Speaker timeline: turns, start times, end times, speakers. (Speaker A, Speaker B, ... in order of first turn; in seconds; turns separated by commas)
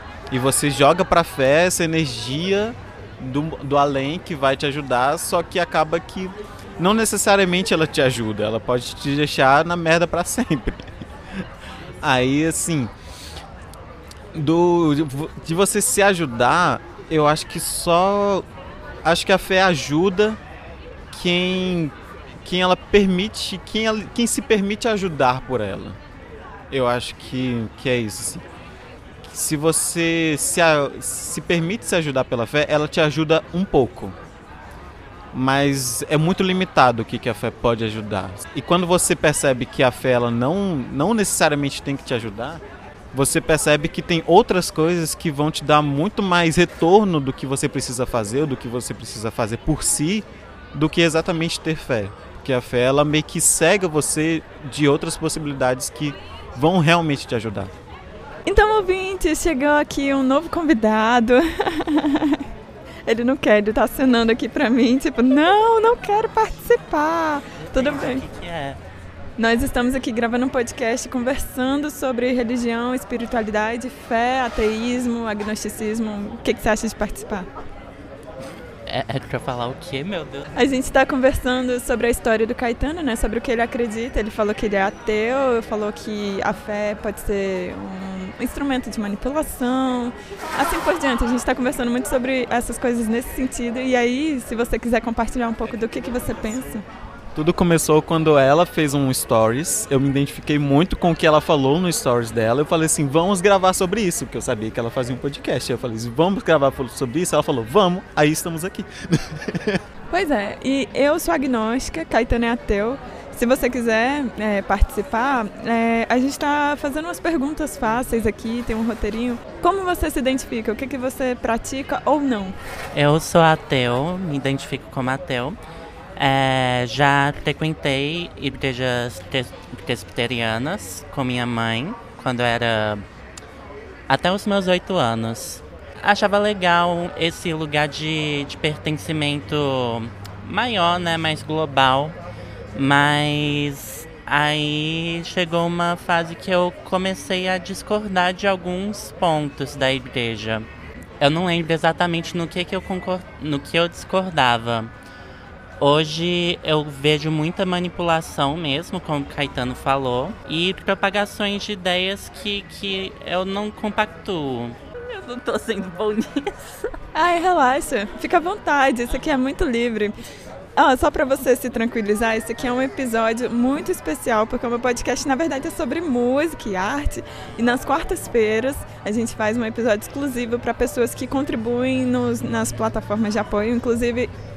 Speaker A: 0.3-11.4, Speaker A: 12.0-12.9, Speaker A: 14.3-18.4, Speaker A: 19.0-20.4, Speaker A: 21.1-26.0, Speaker A: 26.7-28.4, Speaker A: 29.2-34.2, Speaker A: 35.3-57.7, Speaker B: 58.5-62.5, Speaker B: 63.1-68.2, Speaker C: 67.7-68.8, Speaker B: 69.4-77.5, Speaker C: 78.9-80.5, Speaker B: 80.5-96.8, Speaker A: 97.4-109.8, Speaker B: 110.1-122.6, Speaker C: 122.9-125.6, Speaker C: 126.2-133.0, Speaker C: 134.1-142.2, Speaker C: 142.7-150.7, Speaker C: 151.2-154.9, Speaker C: 155.8-167.0, Speaker B: 167.1-170.2, Speaker B: 170.8-184.3